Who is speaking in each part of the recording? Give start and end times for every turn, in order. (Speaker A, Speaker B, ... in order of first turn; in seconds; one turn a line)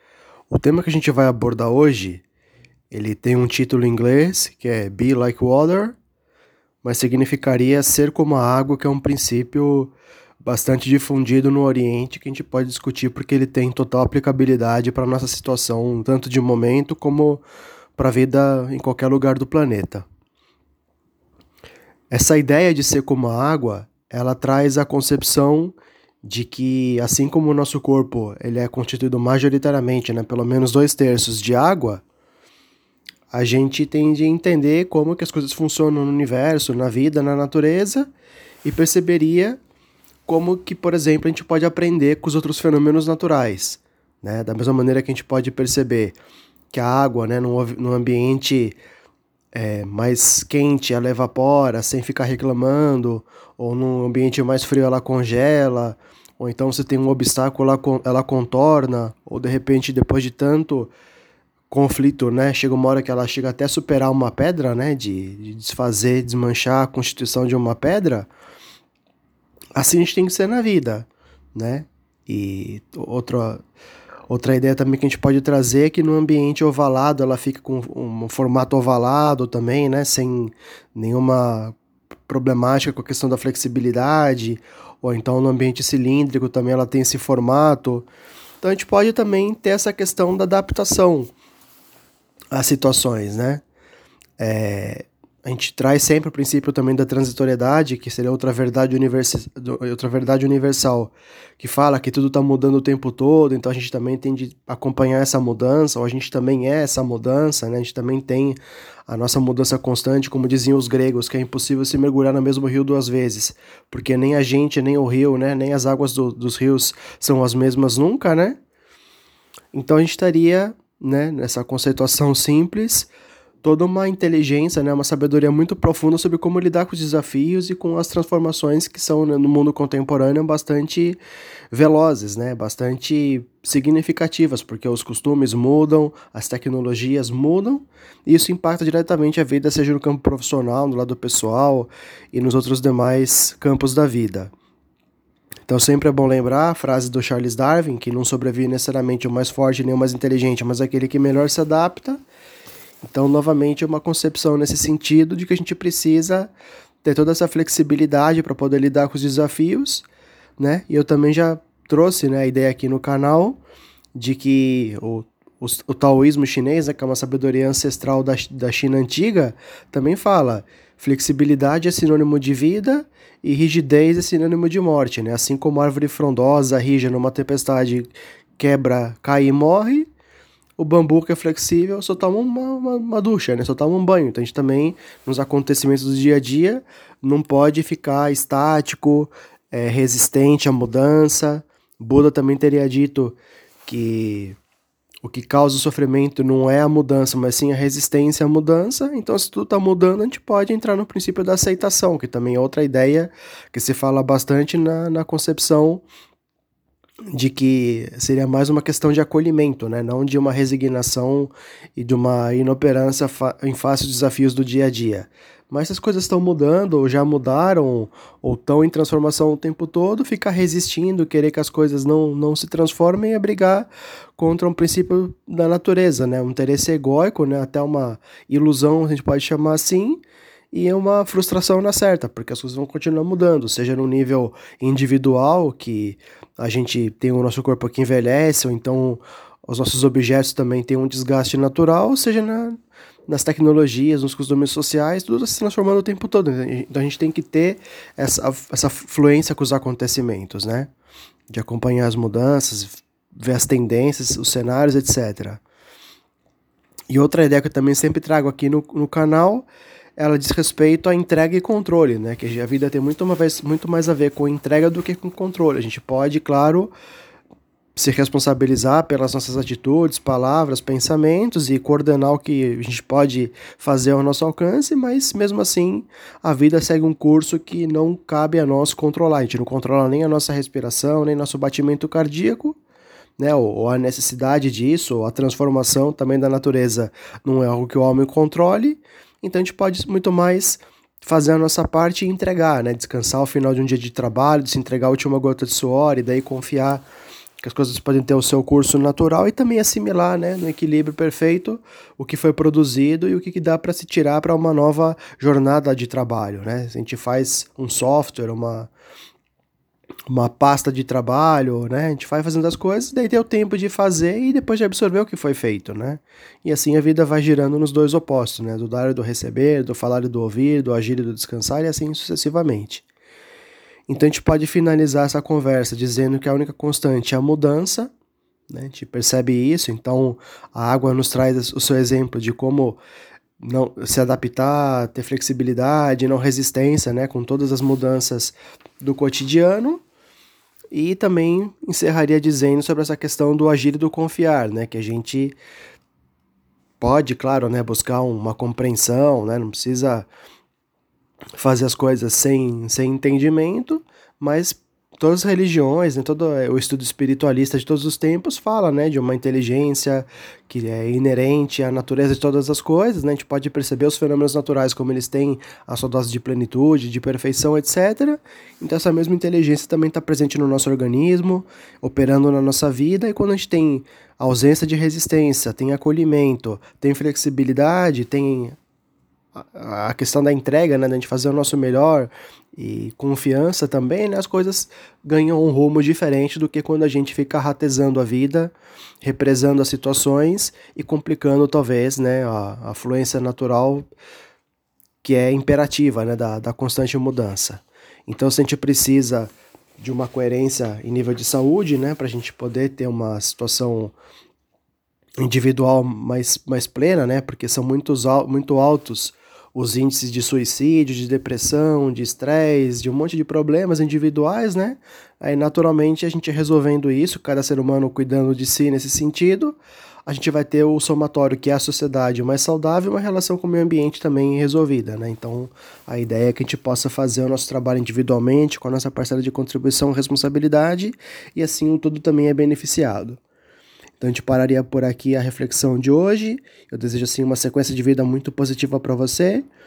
Speaker A: 0.5-2.2
Speaker A: 2.9-6.0
Speaker A: 6.8-17.4
Speaker A: 18.0-20.1
Speaker A: 22.1-32.0
Speaker A: 33.3-38.1
Speaker A: 38.6-39.6
Speaker A: 40.3-46.2
Speaker A: 46.7-48.8
Speaker A: 49.5-60.9
Speaker A: 61.7-68.3
Speaker A: 69.8-73.6
Speaker A: 74.3-81.8
Speaker A: 82.3-88.1
Speaker A: 88.6-91.3
Speaker A: 92.5-93.6
Speaker A: 94.4-118.6
Speaker A: 119.7-123.1
Speaker A: 123.6-131.2
Speaker A: 131.7-144.5
Speaker A: 145.7-152.2
Speaker A: 153.0-156.5
Speaker A: 157.0-160.1
Speaker A: 160.6-163.6
Speaker A: 164.2-180.1
Speaker A: 180.8-194.6
Speaker A: 195.2-206.0
Speaker A: 207.3-230.2
Speaker A: 230.7-250.9
Speaker A: 251.5-255.6
Speaker A: 257.1-266.9
Speaker A: 268.0-282.8
Speaker A: 283.4-297.1
Speaker A: 297.6-308.9
Speaker A: 310.3-323.1
Speaker A: 324.1-328.1
Speaker A: 328.7-333.0
Speaker A: 333.6-340.0
Speaker A: 340.9-345.6
Speaker A: 347.0-350.3
Speaker A: 351.6-378.8
Speaker A: 379.6-394.1
Speaker A: 395.2-404.1
Speaker A: 405.4-433.4
Speaker A: 434.2-439.7